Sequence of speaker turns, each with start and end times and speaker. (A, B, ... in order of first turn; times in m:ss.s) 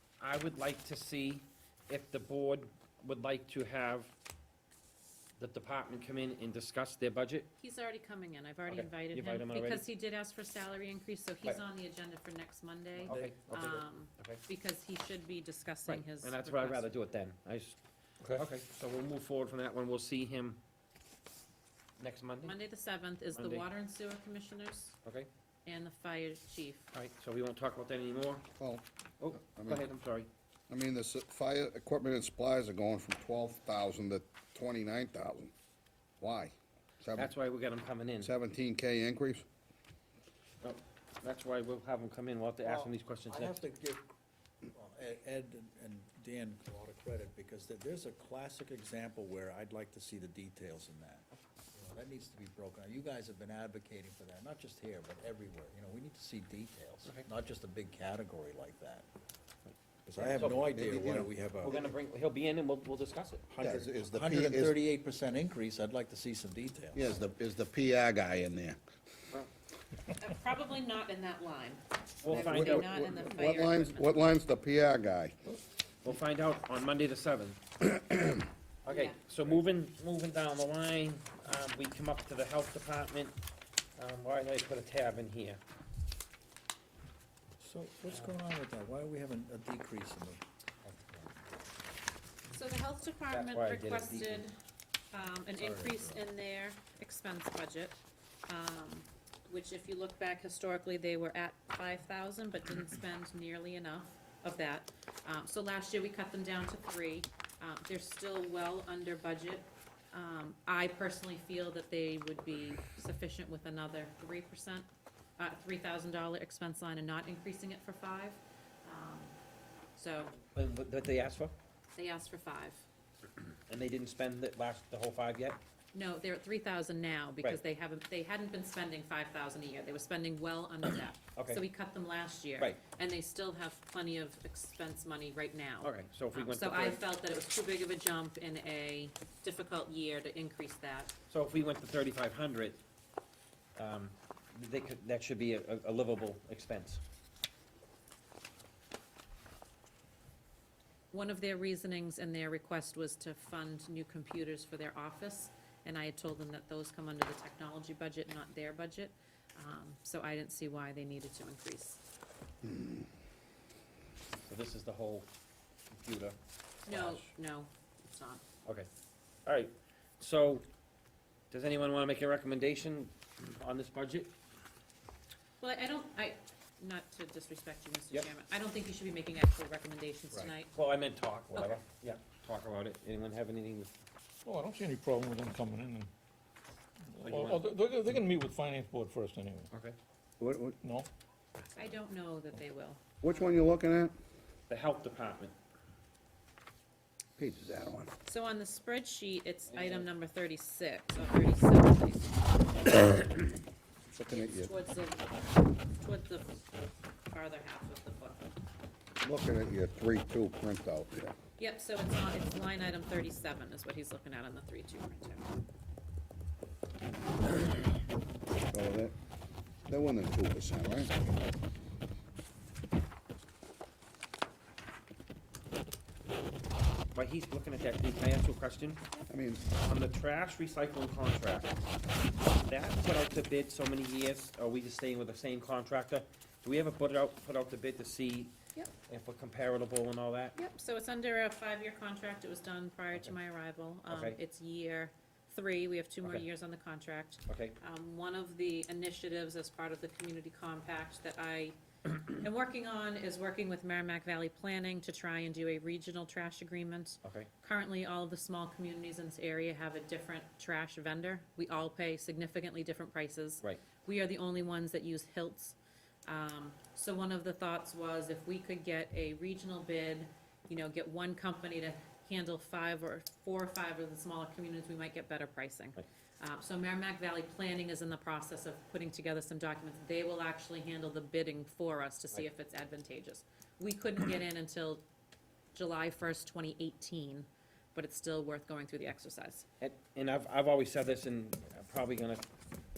0:00.2-0:04.1 A
0:05.4-0:07.5 A
0:07.6-0:16.9 B
0:08.7-0:09.8 A
0:13.0-0:14.4 A
0:15.9-0:17.8 A
0:18.3-0:20.6 A
0:22.0-0:22.6 A
0:22.4-0:25.0 B
0:23.3-0:23.6 A
0:25.0-0:25.3 A
0:25.7-0:26.9 B
0:26.9-0:28.4 A
0:28.6-0:28.8 C
0:29.2-0:30.3 A
0:29.4-0:29.8 C
0:30.7-0:35.5 C
0:36.2-0:37.3 C
0:37.2-0:38.3 A
0:38.2-0:39.5 C
0:40.6-0:43.7 A
0:42.6-0:44.1 D
0:44.6-0:59.1 D
1:00.1-1:01.8 D
1:00.2-1:00.9 A
1:00.7-1:01.3 C
1:01.6-1:03.5 A
1:03.5-1:07.1 D
1:03.6-1:04.8 C
1:07.0-1:08.8 C
1:10.2-1:14.2 B
1:12.2-1:13.0 A
1:12.3-1:15.4 C
1:16.0-1:17.6 A
1:18.8-1:23.4 A
1:18.9-1:19.2 B
1:24.0-1:25.6 A
1:27.6-1:30.4 D
1:32.5-1:34.5 B
1:33.3-1:34.4 A
1:35.1-1:54.9 B
1:35.6-1:36.2 D
1:55.4-1:59.3 B
2:00.0-2:00.4 B
2:00.5-2:01.6 A
2:02.0-2:02.8 B
2:03.7-2:05.6 A
2:05.9-2:21.1 B
2:11.4-2:11.6 A
2:15.8-2:17.0 A
2:21.3-2:22.8 A
2:23.8-2:27.0 A
2:31.1-2:42.0 B
2:44.4-2:45.3 A
2:45.9-2:46.4 A
2:46.9-2:48.4 B
2:49.5-2:50.7 A
2:51.5-2:54.4 A
2:55.6-3:00.7 B
3:00.4-3:03.9 A
3:04.4-3:06.1 E
3:07.1-3:09.7 E
3:07.2-3:07.6 A
3:09.7-3:10.0 A
3:10.4-3:10.8 C
3:10.8-3:11.1 E
3:11.8-3:13.3 B
3:13.2-3:14.1 C
3:14.7-3:15.6 A
3:17.4-3:18.1 C
3:18.3-3:23.4 B
3:19.7-3:20.1 A
3:24.2-3:24.7 C
3:24.3-3:26.6 B
3:27.3-3:28.5 B
3:29.2-3:31.4 C
3:31.6-3:35.5 B
3:38.7-3:39.2 C
3:39.9-3:41.2 C
3:47.1-3:49.0 A
3:49.3-3:49.6 C
3:49.7-3:51.8 A
3:52.6-3:58.5 A
3:59.1-4:00.6 A
4:00.6-4:45.0 B
4:04.1-4:04.4 A
4:07.5-4:07.8 A
4:17.2-4:17.5 A
4:45.7-4:49.7 B
4:49.8-4:52.4 A